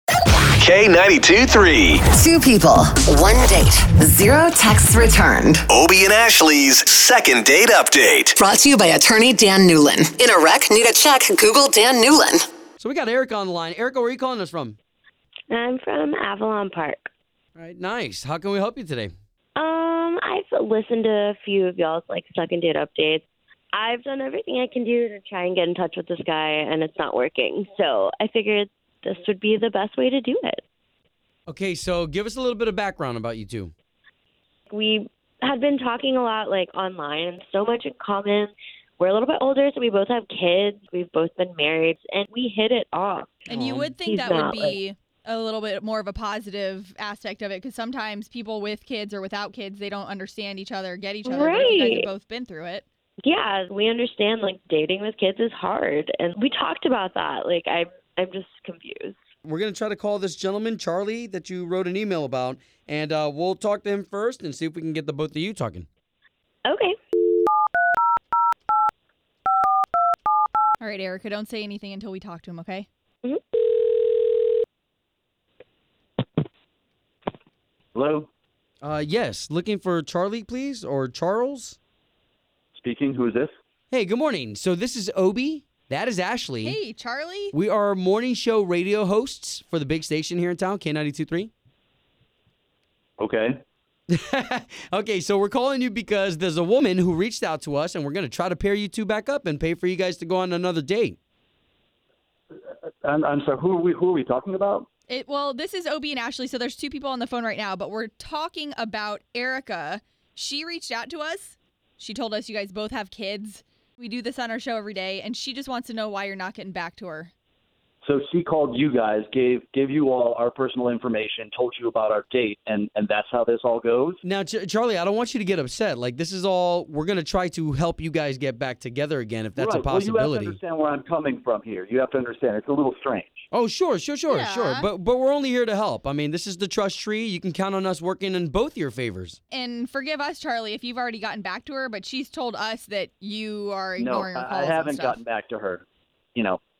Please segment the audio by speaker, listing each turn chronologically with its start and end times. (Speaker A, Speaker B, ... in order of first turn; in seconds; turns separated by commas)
Speaker A: 0.6-2.0, Speaker B: 2.1-5.6, Speaker A: 5.7-8.4, Speaker B: 8.4-12.5, Speaker C: 12.8-14.8, Speaker D: 15.5-17.1, Speaker C: 17.6-19.1, Speaker D: 19.6-30.6, Speaker C: 31.5-33.7, Speaker D: 34.7-44.8, Speaker E: 43.5-52.8, Speaker C: 43.5-43.9, Speaker D: 51.2-52.1, Speaker D: 53.2-59.2, Speaker C: 59.4-65.9, Speaker D: 66.6-67.0, Speaker E: 70.8-72.9, Speaker D: 73.2-74.2, Speaker F: 77.9-78.3, Speaker C: 78.8-81.8, Speaker F: 82.8-83.5, Speaker C: 83.9-86.8, Speaker E: 86.6-87.5, Speaker C: 87.5-91.5, Speaker F: 93.2-93.6, Speaker C: 94.1-101.2, Speaker F: 103.0-104.9, Speaker E: 105.1-117.3, Speaker F: 118.0-124.2, Speaker C: 124.2-130.6, Speaker F: 129.6-133.4, Speaker C: 133.5-139.4, Speaker E: 134.3-134.9, Speaker E: 139.5-145.2, Speaker F: 144.0-145.8, Speaker F: 146.3-146.6